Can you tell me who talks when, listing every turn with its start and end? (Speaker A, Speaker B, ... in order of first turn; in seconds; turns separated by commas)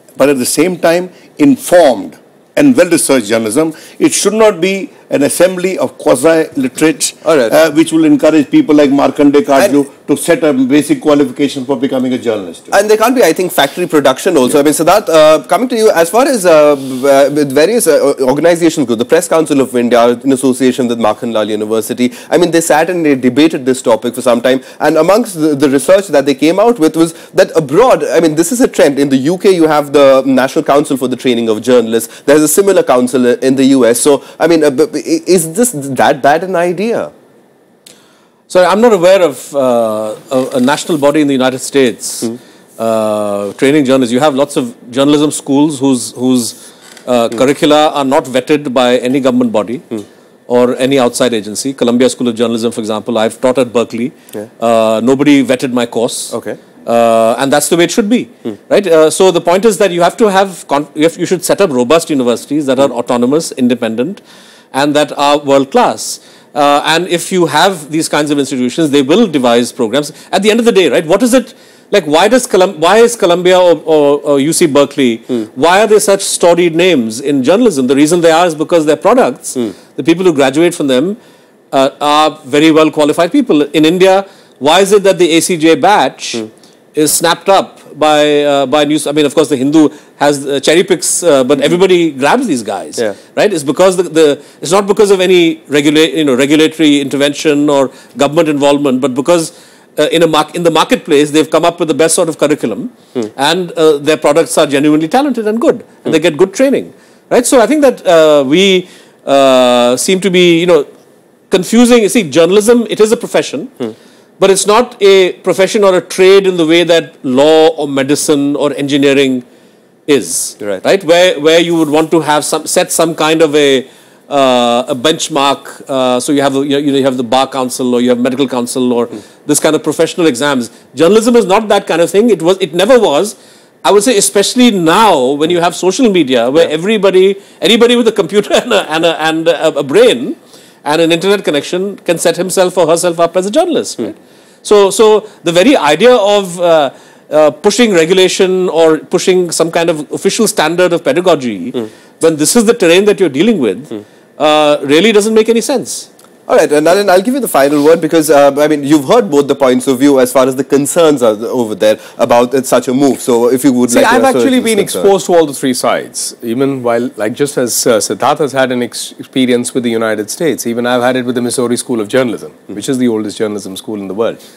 Speaker A: 0.2-12.8, Speaker B: 7.2-7.5, Speaker B: 12.7-37.1, Speaker C: 38.5-64.2, Speaker B: 56.3-56.6, Speaker C: 64.7-81.2, Speaker C: 81.7-110.9, Speaker C: 111.5-119.4, Speaker C: 120.1-156.1, Speaker B: 156.5-165.1, Speaker D: 163.9-174.4